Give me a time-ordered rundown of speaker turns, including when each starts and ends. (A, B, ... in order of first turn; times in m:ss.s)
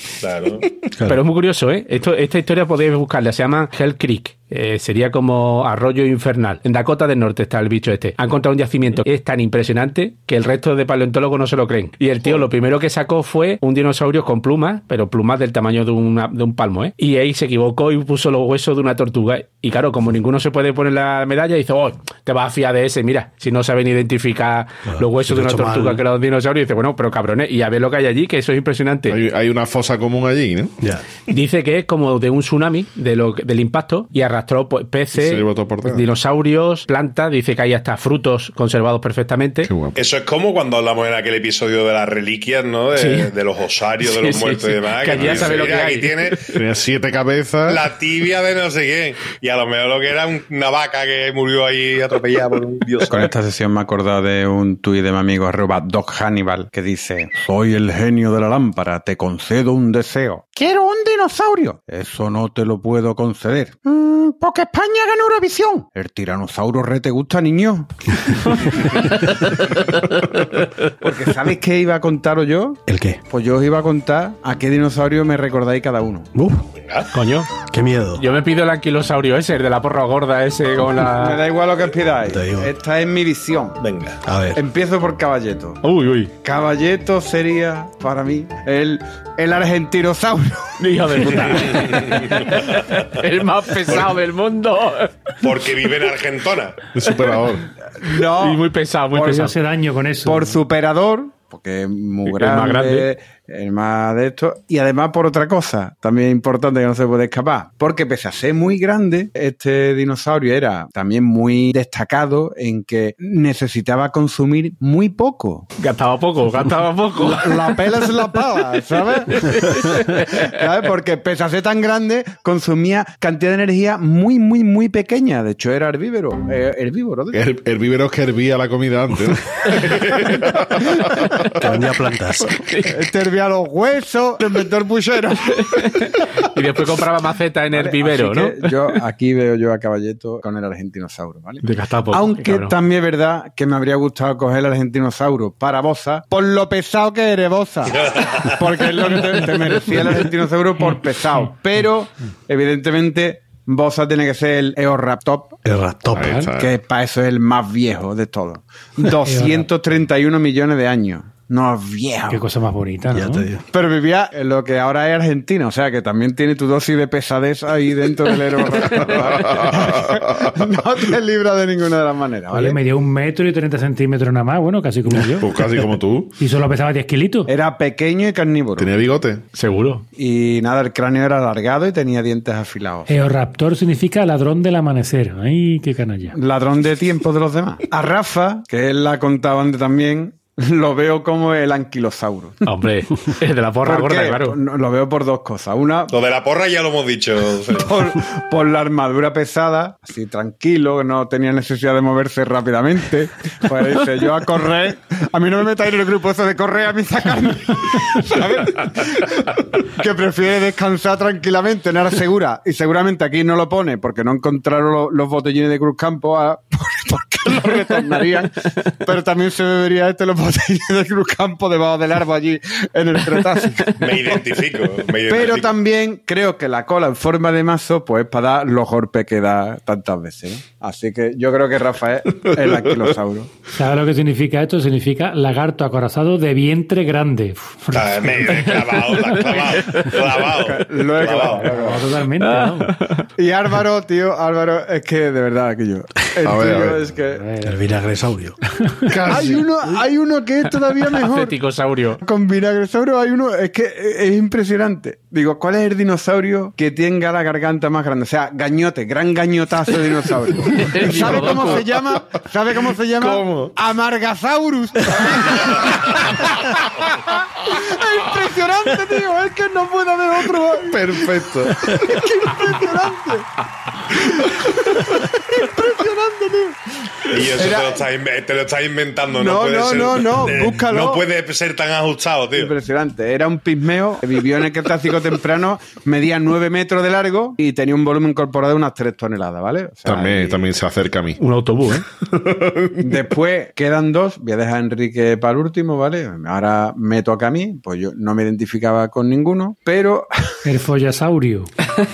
0:00.2-0:00.7 A
0:00.9-0:01.2 B
0:01.0-0:29.2 C
0:24.9-0:26.0 B
0:29.1-0:30.8 D
0:31.3-0:39.7 C
0:35.2-0:36.0 D
0:39.6-0:40.0 D
0:39.9-0:46.5 A
0:42.9-0:43.3 C
0:44.0-0:46.4 C
0:45.1-0:45.7 D
0:46.4-0:47.8 D
0:47.7-0:53.3 A
0:53.1-1:09.8 E
1:11.0-1:16.3 E
1:12.9-1:13.2 B
1:16.3-1:16.6 B
1:16.8-1:17.1 A
1:17.1-1:17.5 C
1:17.7-1:18.2 B
1:18.2-1:21.4 C
1:21.1-1:23.8 E
1:22.2-1:22.7 B
1:23.8-1:24.2 A
1:24.2-1:24.6 B
1:24.5-1:25.8 E
1:25.8-1:26.3 C
1:26.4-1:31.8 E
1:30.8-1:35.3 C
1:31.7-1:32.4 A
1:35.4-1:36.8 A
1:36.9-1:37.7 D
1:37.9-1:39.5 E
1:38.1-1:39.5 C
1:39.2-1:40.6 F
1:40.2-1:55.7 E
1:42.2-1:43.1 C
1:55.8-2:00.5 C
1:57.2-2:07.4 E
2:07.3-2:11.6 D
2:11.6-2:12.6 B
2:12.6-2:13.0 C
2:12.8-2:16.1 E
2:15.4-2:18.9 C
2:17.7-2:35.6 E
2:21.6-2:22.7 C
2:27.9-2:28.8 A
2:35.6-2:36.5 B
2:36.1-2:36.7 D
2:36.5-2:42.4 E
2:39.2-2:39.7 F
2:42.3-2:43.5 F
2:43.1-2:43.6 B
2:43.7-2:52.8 E
2:48.9-2:50.6 D
2:52.5-2:55.6 F
2:55.4-2:56.3 D
2:56.4-2:57.5 F
2:57.5-2:58.9 E
2:58.8-2:59.4 D
2:59.5-3:00.0 C
3:00.2-3:03.3 E
3:03.1-3:06.4 F
3:06.3-3:12.6 E
3:12.6-3:14.6 C
3:13.8-3:16.1 E
3:16.1-3:17.9 A
3:17.7-3:44.4 E
3:44.0-3:45.7 A
3:45.3-3:53.6 E
3:53.7-3:59.3 F
3:57.9-4:01.7 A
3:59.5-4:00.1 C
4:00.1-4:02.1 E
4:01.4-4:02.9 F
4:02.4-4:03.3 C
4:03.4-4:07.4 E
4:06.4-4:07.0 D
4:07.3-4:07.8 F
4:07.6-4:08.6 B
4:08.7-4:09.4 F
4:09.0-4:09.6 D
4:09.3-4:11.6 E
4:11.0-4:12.2 C
4:12.2-4:33.5 E
4:20.7-4:21.9 C
4:21.1-4:21.6 D
4:23.2-4:23.7 D
4:30.9-4:32.5 D
4:34.1-4:36.8 E
4:37.3-4:42.7 A
4:37.3-4:38.0 E
4:39.3-4:41.2 E
4:42.5-4:50.6 E
4:50.0-4:51.4 D
4:51.4-4:52.0 C
4:52.2-4:53.3 D
4:53.0-5:00.6 E
5:00.6-5:01.7 F